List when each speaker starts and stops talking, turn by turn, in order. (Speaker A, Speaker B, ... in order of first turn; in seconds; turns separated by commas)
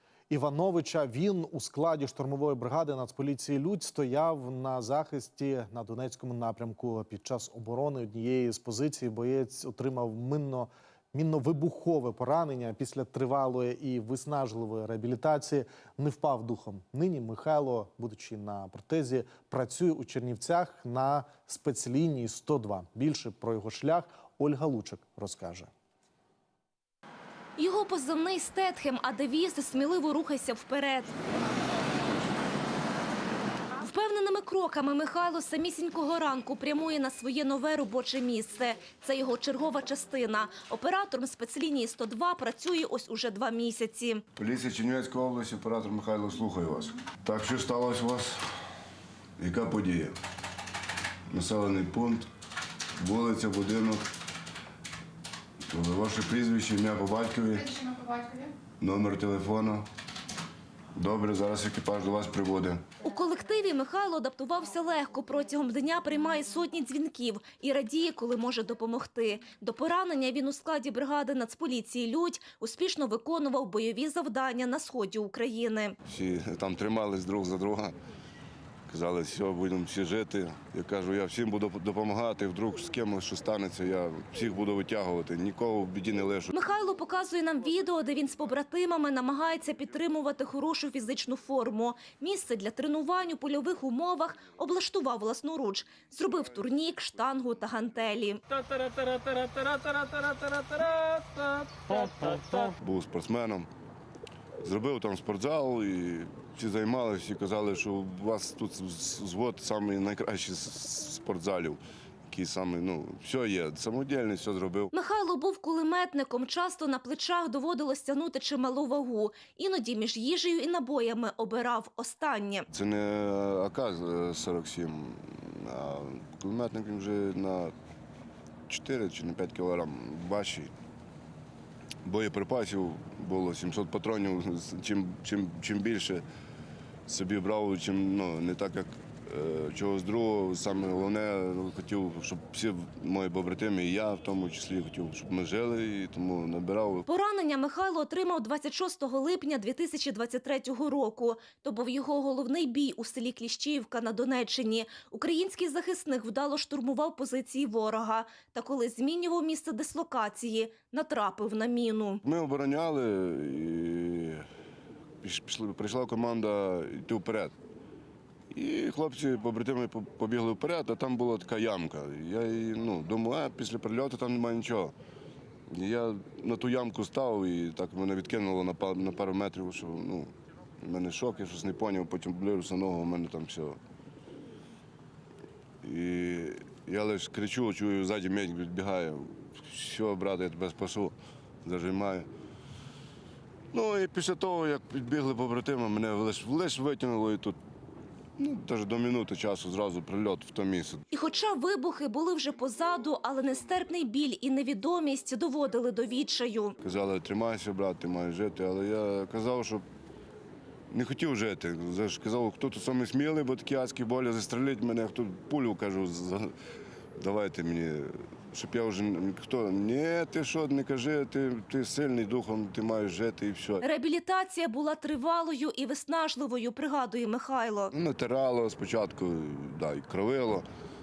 Speaker A: 0.3-25.7, Speaker B: 27.6-31.1, Speaker B: 33.8-44.2, Speaker C: 44.4-48.5, Speaker C: 49.4-50.2, Speaker C: 51.3-52.3, Speaker C: 53.0-54.0, Speaker C: 55.7-57.9, Speaker D: 57.9-58.5, Speaker C: 58.8-59.8, Speaker C: 60.9-62.8, Speaker B: 63.0-76.0, Speaker C: 76.1-78.0, Speaker C: 78.9-86.5, Speaker B: 86.5-98.4, Speaker D: 98.5-102.8, Speaker C: 102.8-103.7, Speaker C: 104.6-114.9, Speaker B: 114.9-122.7, Speaker C: 122.7-127.7, Speaker C: 128.7-130.7, Speaker C: 132.0-136.2, Speaker C: 137.1-147.1, Speaker B: 147.1-162.2, Speaker C: 162.2-164.4, Speaker C: 165.2-167.5, Speaker C: 168.5-174.9, Speaker C: 175.7-183.8, Speaker C: 185.8-192.3, Speaker C: 193.7-197.6, Speaker C: 198.4-201.0, Speaker B: 201.1-206.8, Speaker C: 206.8-209.8, Speaker C: 210.9-216.5, Speaker C: 217.2-223.8, Speaker B: 223.8-227.9, Speaker C: 227.9-230.7